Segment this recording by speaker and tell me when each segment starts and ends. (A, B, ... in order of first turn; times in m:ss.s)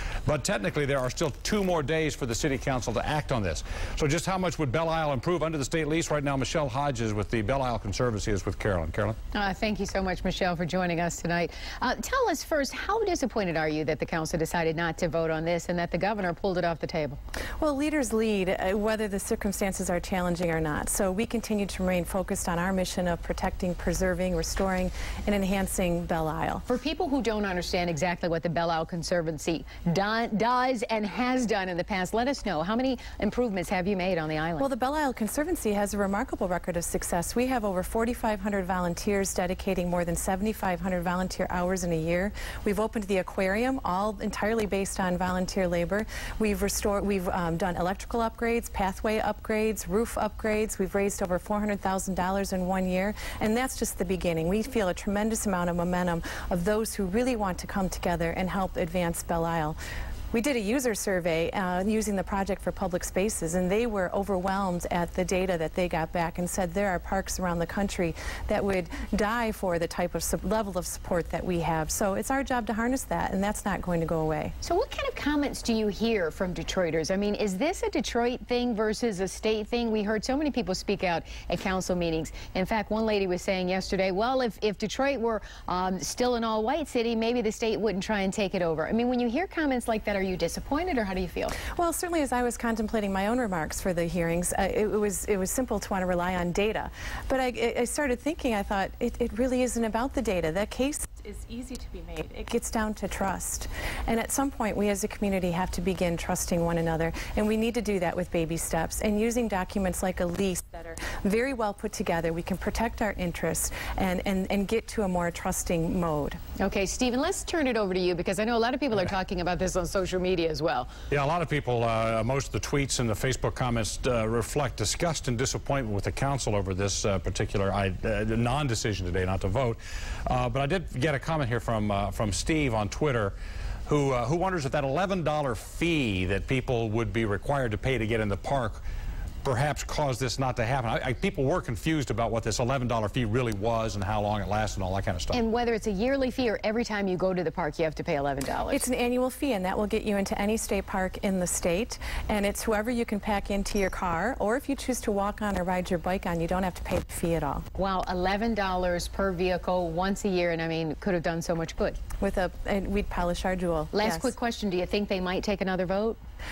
0:00.2-0:09.2 A
0:09.3-0:17.2 B
0:17.6-0:26.6 C
0:26.7-0:34.7 B
0:34.6-0:59.8 C
1:00.3-1:14.5 C
1:14.6-1:31.6 B
1:31.7-1:56.4 C
1:56.6-2:00.9 B
2:01.1-2:13.3 A
2:13.9-2:18.8 A
2:19.4-2:25.4 A
2:25.3-2:28.8 B
2:28.7-2:37.6 C
2:37.8-2:42.0 B
2:42.2-2:44.3 C
2:43.9-2:46.2 B